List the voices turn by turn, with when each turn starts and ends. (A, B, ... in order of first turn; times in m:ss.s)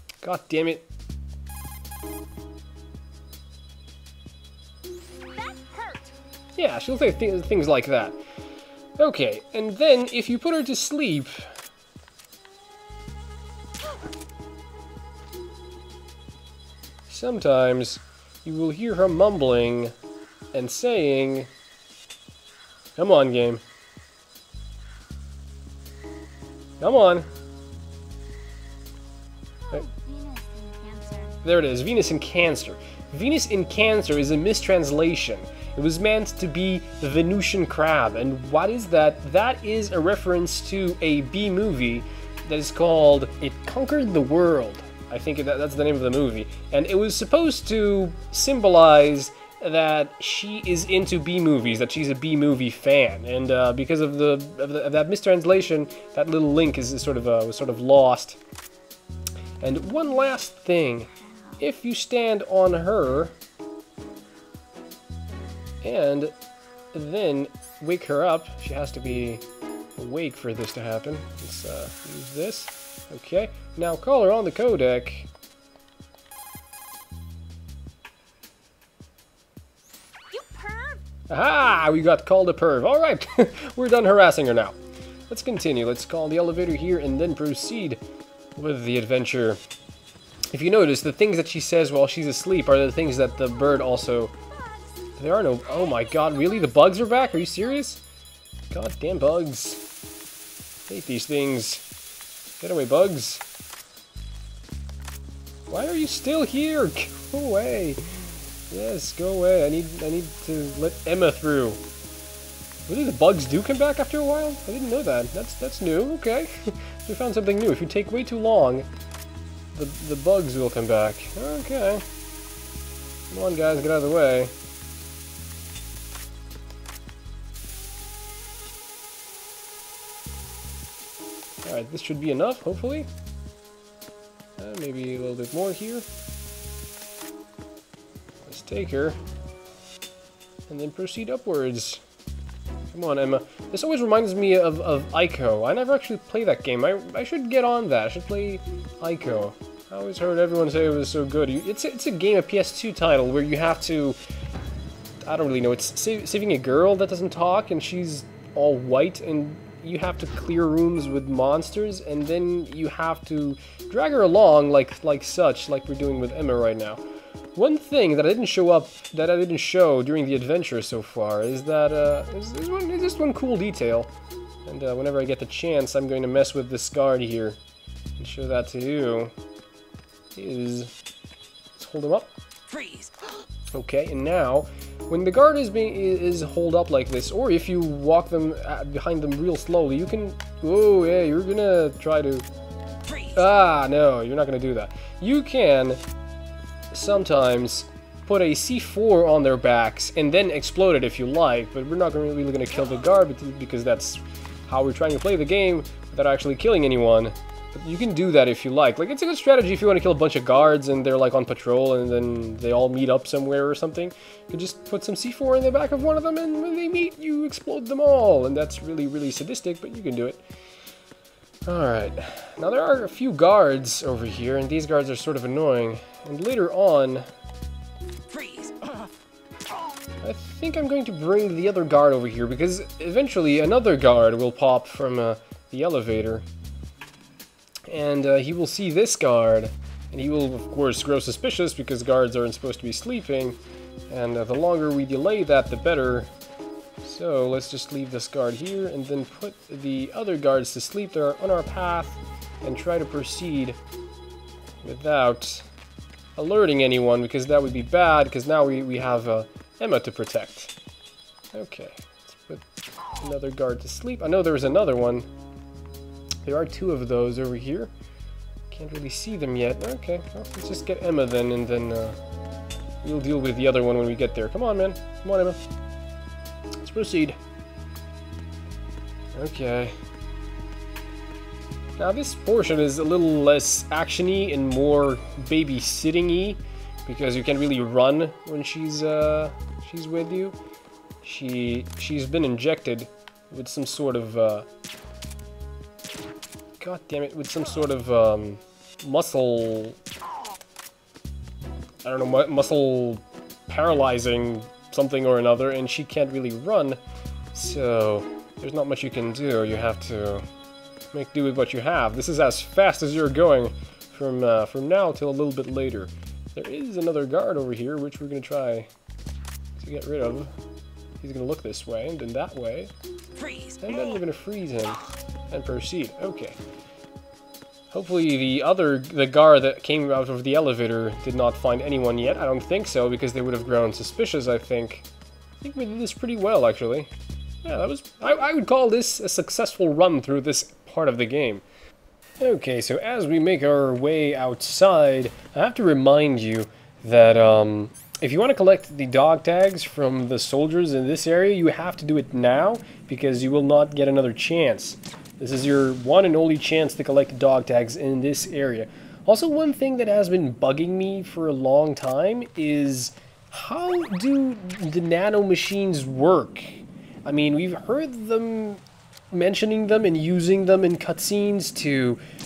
0:00.2-0:00.9 A
0:05.2-0:06.1 B
0:06.6-0:08.2 A
0:09.0-0:11.5 A
0:17.1-0:19.9 A
0:20.5-0:21.5 A
0:23.0-0:23.6 A
0:26.8-0:27.3 A
0:29.6-0:31.4 B
0:31.4-0:58.4 A
0:59.6-1:03.4 A
1:01.2-1:01.6 B
1:05.8-1:06.4 A
1:06.9-1:09.4 A
1:10.0-1:15.3 A
1:20.3-1:21.0 B
1:21.3-1:24.8 A
1:25.3-1:28.0 A
1:28.6-1:29.6 A
1:30.5-1:34.4 A
1:34.6-1:34.9 B
1:35.2-1:38.0 A
1:35.9-1:37.1 B
1:38.7-1:39.8 A
1:40.9-1:41.8 A
1:42.6-1:43.4 A
1:45.7-1:48.0 A
1:48.7-1:51.8 A
1:52.9-1:58.9 A
1:59.8-2:02.0 A
2:03.3-2:04.5 A
2:11.6-2:13.1 A
2:14.6-2:16.1 A
2:18.4-2:19.2 A
2:20.7-2:22.0 A
2:22.9-2:34.2 A
2:35.2-2:47.0 A
2:47.6-2:54.1 A
2:54.7-2:57.6 A
2:58.2-2:59.3 A
3:00.4-3:00.9 A
3:01.8-3:02.3 A
3:02.7-3:03.2 C
3:03.7-3:12.5 A
3:13.1-3:13.4 C
3:13.4-3:16.0 A
3:16.9-3:40.4 A
3:41.7-3:47.3 A
3:48.3-3:49.1 C
3:50.2-3:56.5 A
3:57.9-4:03.6 A
4:04.1-4:06.3 A
4:07.0-4:13.8 A
4:14.8-4:15.7 A
4:16.4-4:20.7 A
4:21.5-4:22.6 A
4:23.2-4:25.3 A
4:26.4-4:27.9 A
4:28.7-4:32.2 A
4:33.0-4:35.6 A
4:36.8-4:37.4 A
4:39.3-4:40.0 A
4:42.0-4:50.6 A
4:51.2-4:54.7 A
4:56.8-5:00.0 A
5:02.0-5:07.0 A
5:07.5-5:10.5 A
5:11.1-5:18.9 A
5:19.8-5:20.6 A
5:21.2-5:22.9 A
5:23.4-5:24.2 C
5:23.8-5:26.6 A
5:27.9-5:35.1 A
5:35.6-5:37.1 A
5:37.6-5:41.6 A
5:42.4-6:12.2 A